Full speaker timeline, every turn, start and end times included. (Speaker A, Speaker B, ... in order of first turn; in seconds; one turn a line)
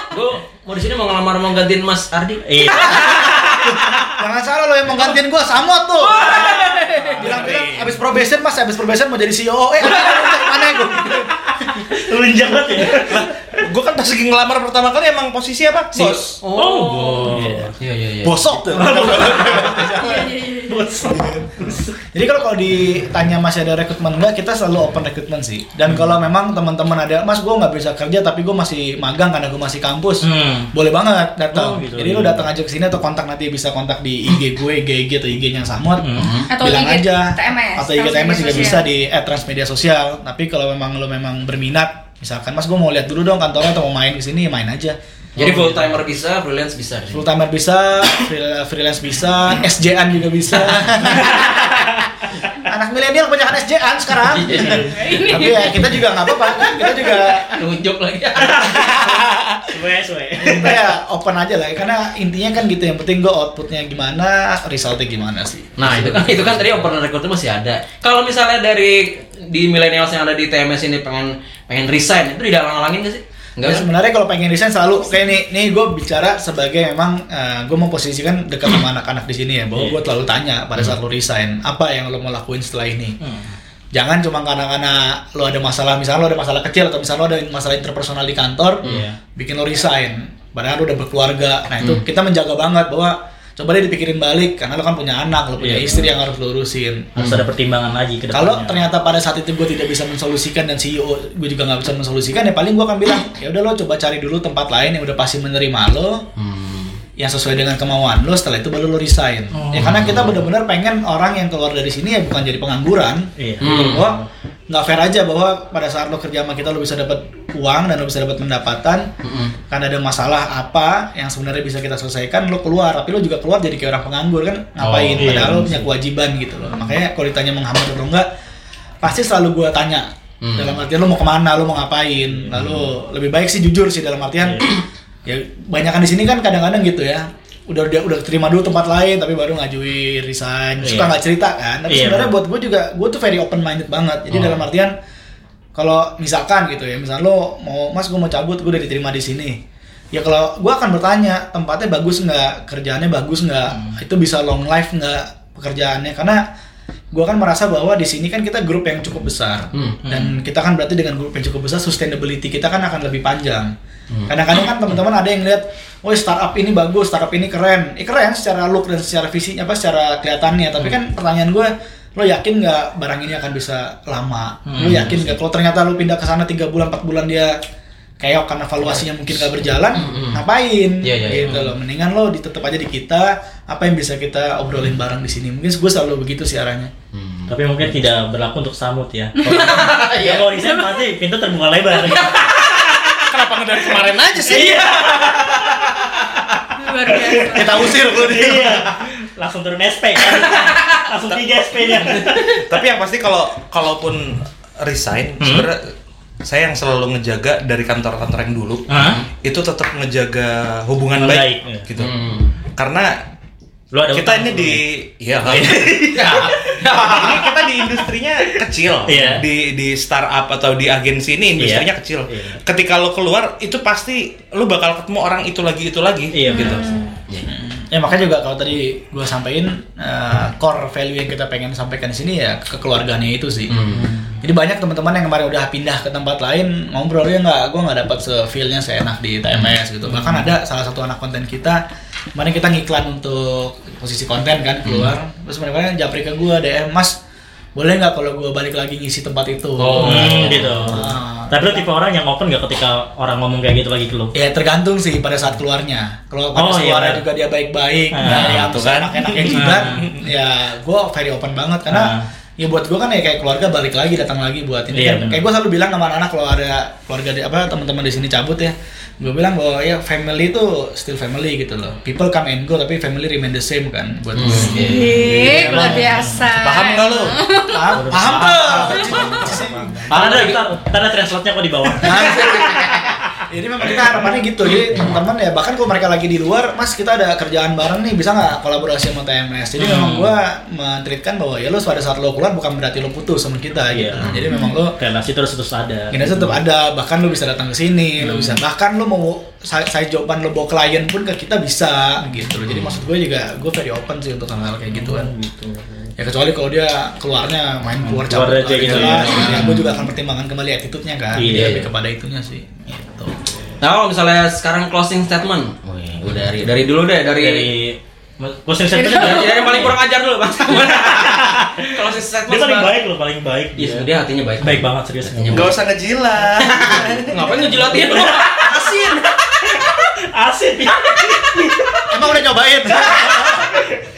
Speaker A: 0.1-3.5
Speaker B: 2.4-3.2
Speaker C: 2.7-11.8
Speaker A: 6.0-7.1
Speaker D: 7.2-7.9
Speaker B: 11.8-13.3
Speaker D: 12.9-16.4
Speaker A: 15.9-18.6
Speaker B: 16.5-17.7
Speaker C: 18.2-20.4
Speaker B: 18.7-20.0
Speaker E: 20.0-20.7
Speaker B: 20.6-21.9
Speaker C: 21.0-45.0
Speaker B: 30.2-30.7
Speaker B: 31.5-32.4
Speaker B: 36.0-36.3
Speaker A: 36.1-36.5
Speaker E: 36.5-38.8
Speaker A: 45.4-47.2
Speaker C: 47.1-52.0
Speaker B: 51.2-52.0
Speaker C: 52.6-57.5
Speaker A: 54.3-55.1
Speaker E: 54.9-55.9
Speaker A: 56.9-59.1
Speaker B: 58.4-60.9
Speaker C: 58.7-59.5
Speaker C: 60.4-66.5
Speaker A: 65.8-73.8
Speaker C: 73.6-83.2
Speaker B: 83.2-83.5
Speaker C: 83.9-97.1
Speaker B: 88.8-89.2
Speaker B: 95.6-96.1
Speaker A: 97.2-97.4
Speaker B: 97.2-98.8
Speaker C: 98.3-106.2
Speaker A: 106.3-107.0
Speaker C: 107.2-119.1
Speaker B: 109.5-110.3
Speaker A: 109.8-110.3
Speaker B: 113.4-114.3
Speaker A: 113.6-114.1
Speaker A: 119.2-119.5
Speaker C: 119.7-128.3
Speaker B: 124.8-125.8
Speaker A: 125.2-125.6
Speaker C: 129.0-144.9
Speaker A: 130.4-130.8
Speaker A: 132.5-132.9
Speaker B: 140.8-141.1
Speaker B: 141.9-142.3
Speaker C: 145.7-149.6
Speaker C: 150.1-156.4
Speaker C: 157.1-163.7
Speaker A: 159.7-160.0
Speaker B: 160.0-160.3
Speaker C: 164.3-177.6
Speaker B: 174.7-175.2
Speaker C: 178.2-186.9
Speaker A: 179.9-180.4
Speaker A: 181.0-181.5
Speaker A: 187.1-187.5
Speaker B: 187.5-192.5
Speaker A: 189.4-190.5
Speaker A: 192.1-192.7
Speaker D: 193.2-194.9
Speaker B: 194.5-195.5
Speaker A: 194.5-196.1
Speaker E: 196.8-197.9
Speaker B: 197.2-202.6
Speaker C: 197.4-199.0
Speaker D: 201.3-213.2
Speaker B: 205.4-205.7
Speaker B: 208.9-209.2
Speaker B: 211.2-211.8
Speaker A: 212.0-212.5
Speaker B: 213.9-214.8
Speaker D: 214.1-226.8
Speaker B: 215.4-216.7
Speaker A: 216.1-217.6
Speaker B: 219.1-219.4
Speaker B: 221.6-222.6
Speaker B: 226.3-226.9
Speaker E: 226.5-227.1
Speaker C: 227.5-233.8
Speaker A: 233.7-234.1
Speaker B: 233.9-234.3
Speaker C: 234.4-241.8
Speaker C: 242.3-247.2
Speaker C: 247.8-251.8
Speaker A: 249.8-251.0
Speaker B: 250.0-254.3
Speaker C: 254.3-276.3
Speaker B: 256.5-257.2
Speaker B: 258.1-258.7
Speaker D: 258.2-260.2
Speaker B: 259.4-260.1
Speaker B: 261.9-262.2
Speaker B: 264.9-265.4
Speaker A: 274.3-275.2
Speaker E: 274.7-277.9
Speaker B: 275.4-276.4
Speaker D: 276.5-277.4
Speaker C: 277.7-280.3
Speaker B: 277.9-282.9
Speaker A: 278.1-279.0
Speaker E: 279.0-279.4
Speaker A: 280.1-280.6
Speaker C: 282.0-294.9
Speaker A: 282.1-283.1
Speaker B: 289.8-290.3
Speaker B: 293.9-296.5
Speaker C: 296.1-305.3
Speaker B: 298.2-298.6
Speaker B: 304.9-306.1
Speaker C: 306.2-313.5
Speaker B: 308.0-309.9
Speaker A: 309.1-309.6
Speaker B: 311.3-311.9
Speaker A: 311.5-311.8
Speaker A: 313.8-317.7
Speaker B: 317.4-319.9
Speaker E: 318.9-319.9
Speaker A: 319.0-323.0
Speaker B: 320.7-321.9
Speaker B: 322.5-324.1
Speaker A: 323.8-325.8
Speaker B: 324.6-325.8
Speaker D: 325.5-327.4
Speaker A: 326.6-329.2
Speaker B: 327.8-332.4
Speaker C: 332.1-333.7
Speaker B: 332.9-334.0